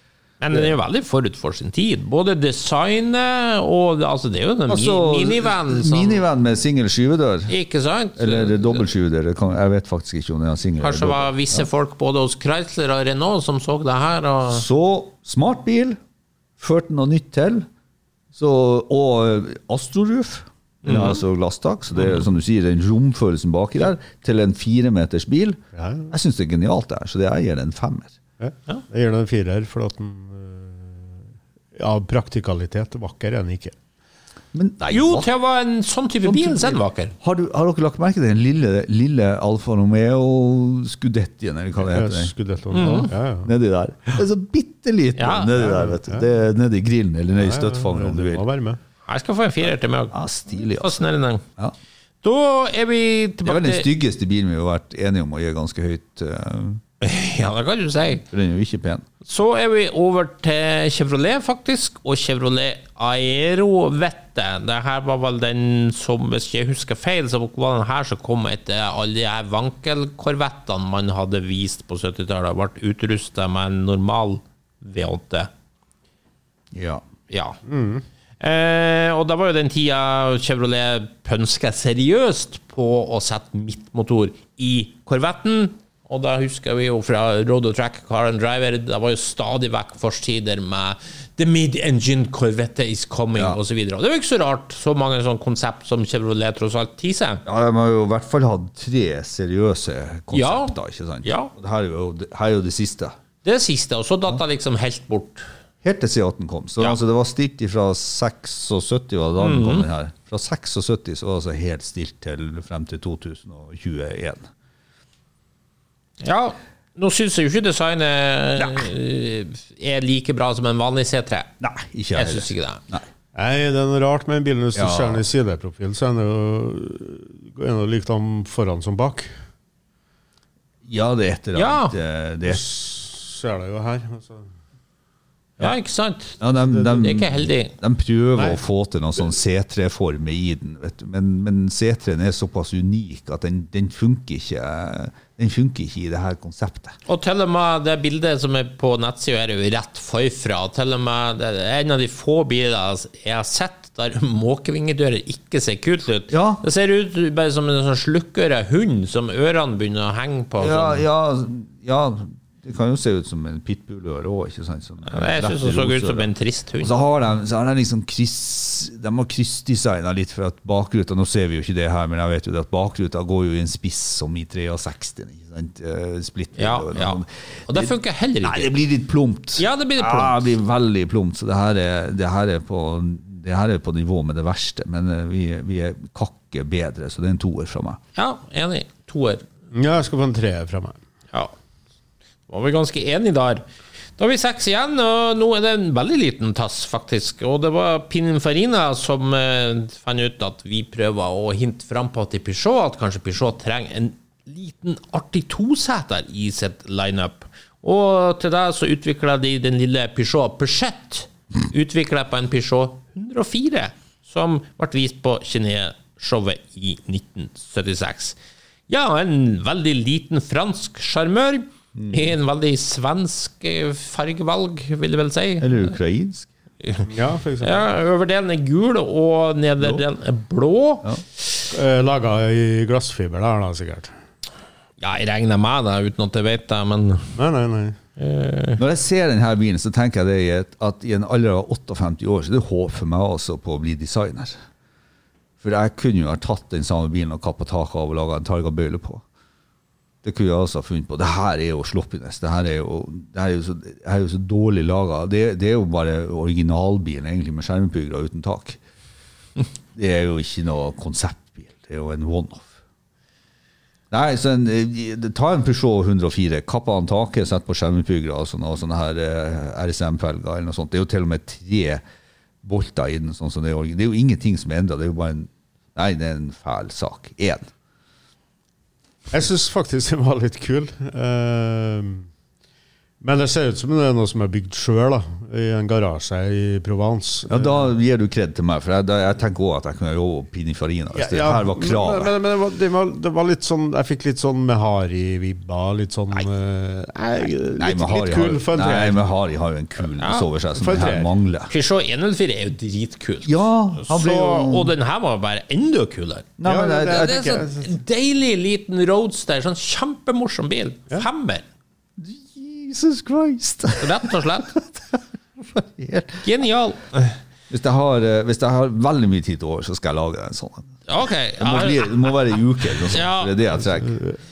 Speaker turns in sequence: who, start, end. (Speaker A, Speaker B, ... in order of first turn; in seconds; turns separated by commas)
Speaker A: 0.4-6.2, Speaker B: 4.7-7.5, Speaker A: 7.5-8.8, Speaker B: 8.2-11.7, Speaker A: 10.8-14.6, Speaker B: 14.5-16.0, Speaker B: 16.6-17.7, Speaker B: 18.3-28.2, Speaker A: 20.8-21.2, Speaker C: 25.7-26.1, Speaker C: 28.4-31.2, Speaker C: 31.7-33.7, Speaker B: 34.5-35.3, Speaker A: 34.9-37.1, Speaker B: 36.2-42.3, Speaker C: 41.8-43.5, Speaker A: 42.7-43.1, Speaker B: 43.4-48.5, Speaker A: 45.2-45.6, Speaker C: 45.7-46.3, Speaker C: 47.4-48.8, Speaker A: 49.0-51.4, Speaker B: 50.1-51.0, Speaker A: 52.2-53.9, Speaker B: 53.5-56.8, Speaker A: 57.0-58.2, Speaker B: 58.3-59.0, Speaker A: 59.2-75.5, Speaker B: 76.7-77.0, Speaker A: 77.3-77.6, Speaker C: 77.7-78.0, Speaker A: 78.4-97.4, Speaker B: 97.5-103.2, Speaker A: 100.3-101.5, Speaker A: 103.4-105.5, Speaker B: 105.8-114.5, Speaker A: 109.4-109.9, Speaker A: 116.2-121.5, Speaker B: 118.6-118.8, Speaker B: 121.6-123.0, Speaker A: 122.1-122.8, Speaker C: 123.3-129.3, Speaker B: 124.7-125.2, Speaker B: 130.8-132.6, Speaker A: 131.6-131.9, Speaker C: 132.4-134.5, Speaker A: 135.6-137.7, Speaker B: 136.4-147.0, Speaker A: 147.1-161.0, Speaker B: 156.3-156.6, Speaker B: 160.6-166.3, Speaker A: 165.1-166.9, Speaker B: 166.8-188.0, Speaker A: 176.6-178.7, Speaker A: 179.6-180.4, Speaker A: 188.1-189.4, Speaker C: 189.7-191.0, Speaker A: 192.5-193.6, Speaker A: 194.2-218.4, Speaker A: 218.9-225.9, Speaker B: 221.9-222.3, Speaker B: 225.6-226.5, Speaker A: 226.8-227.1, Speaker C: 227.1-227.9, Speaker A: 227.6-231.4, Speaker C: 231.7-234.1, Speaker A: 235.0-237.3, Speaker C: 237.3-238.0, Speaker A: 238.2-238.8, Speaker B: 238.8-244.6, Speaker B: 245.6-249.2, Speaker B: 250.2-258.8, Speaker B: 259.9-262.7, Speaker B: 264.1-272.0, Speaker B: 272.6-277.7, Speaker C: 279.3-282.3, Speaker C: 283.2-287.9, Speaker B: 287.5-292.3, Speaker C: 291.1-299.2, Speaker B: 297.8-301.7, Speaker A: 300.2-300.5, Speaker C: 300.8-301.3, Speaker A: 301.7-306.6, Speaker B: 303.4-304.9, Speaker B: 306.6-307.4, Speaker C: 306.6-307.9, Speaker A: 307.1-311.6, Speaker B: 312.2-315.2, Speaker A: 313.9-314.8, Speaker B: 315.7-316.4, Speaker A: 316.4-317.4, Speaker B: 317.7-320.9, Speaker A: 321.1-323.6, Speaker B: 321.6-324.2